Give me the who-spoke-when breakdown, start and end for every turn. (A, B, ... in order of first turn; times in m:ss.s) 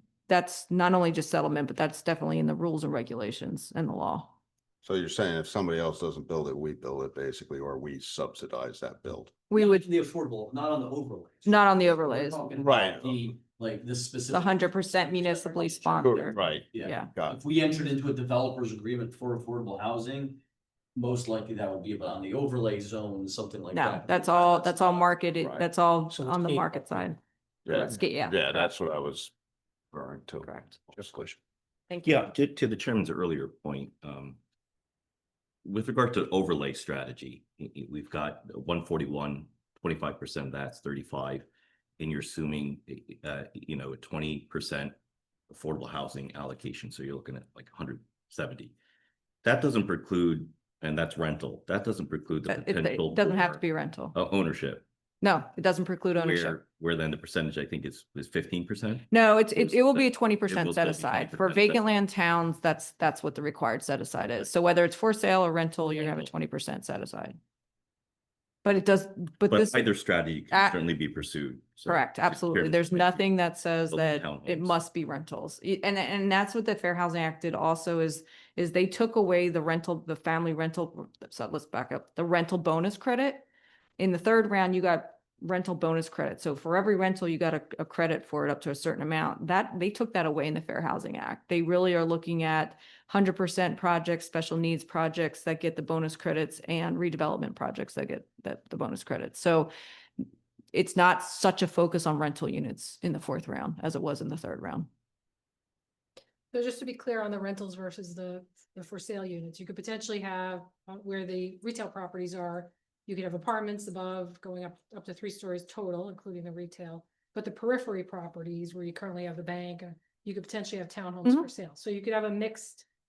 0:00.3-0:04.3 A
0:04.8-0:09.3 B
0:09.5-0:09.9 A
0:09.5-0:20.4 C
0:11.4-0:12.4 A
0:12.6-0:13.1 B
0:14.3-0:17.1 A
0:16.0-0:17.4 B
0:21.0-0:25.1 C
0:23.7-0:27.2 A
0:26.3-0:26.7 C
0:27.7-0:29.3 B
0:27.7-0:28.6 A
0:29.9-0:31.4 B
0:30.4-0:30.8 A
0:31.9-0:32.2 A
0:32.0-0:34.4 D
0:35.6-0:41.5 D
0:42.0-0:45.0 D
0:45.5-0:48.7 D
0:49.4-0:53.6 D
0:52.5-0:54.2 A
0:54.1-0:54.8 D
0:55.2-0:56.6 A
0:56.1-1:01.8 D
0:59.1-1:07.4 A
1:08.6-1:09.9 A
1:09.5-1:13.2 D
1:10.5-1:10.8 A
1:11.9-1:23.5 A
1:13.9-1:14.7 D
1:24.0-1:39.7 A
1:40.7-1:44.9 A
1:46.5-2:02.9 E